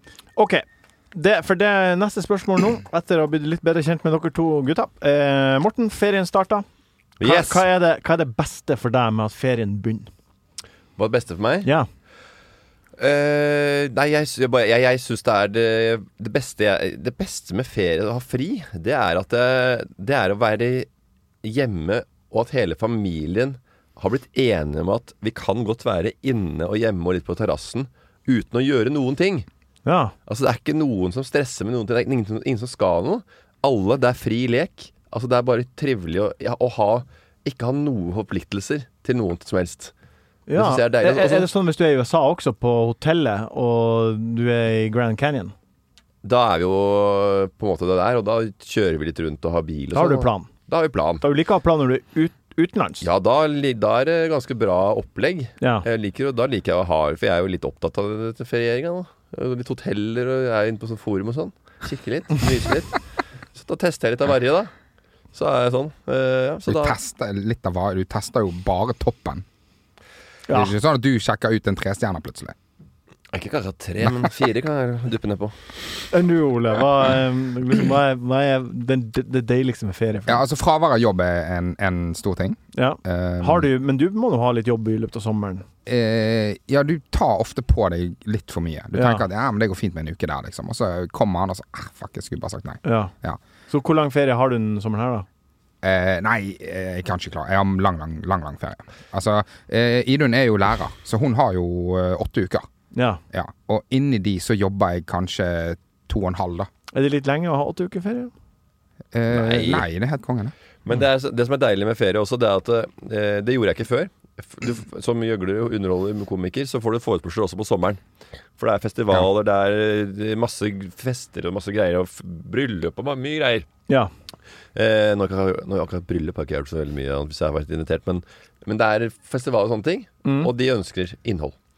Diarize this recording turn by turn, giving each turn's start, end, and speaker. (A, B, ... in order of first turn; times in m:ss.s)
0:00.4-0:06.6 A
0:07.2-0:07.6 B
0:07.2-0:10.1 A
0:11.0-0:11.7 B
0:13.0-0:20.9 B
0:21.4-0:29.4 B
0:29.8-0:30.1 A
0:30.3-0:39.9 B
0:40.5-0:45.5 A
0:40.5-0:41.5 B
0:46.2-0:51.2 B
0:49.9-0:50.5 A
0:51.2-0:53.0 A
0:53.0-1:03.0 B
0:55.6-0:55.8 A
1:03.5-1:04.7 B
1:05.3-1:07.0 B
1:06.7-1:09.4 C
1:10.5-1:10.8 A
1:10.5-1:12.5 C
1:13.3-1:15.6 B
1:16.1-1:20.4 A
1:20.3-1:23.7 C
1:22.7-1:25.6 A
1:25.8-1:33.4 C
1:28.9-1:29.2 A
1:32.8-1:33.1 A
1:33.7-1:35.2 A
1:35.8-1:42.7 C
1:42.9-1:43.2 A
1:43.3-1:46.7 C
1:46.9-1:48.3 A
1:49.1-1:50.5 C
1:49.3-1:49.8 B
1:50.8-1:58.0 B
1:58.6-2:03.7 B
2:04.7-2:11.5 B
2:10.2-2:10.5 A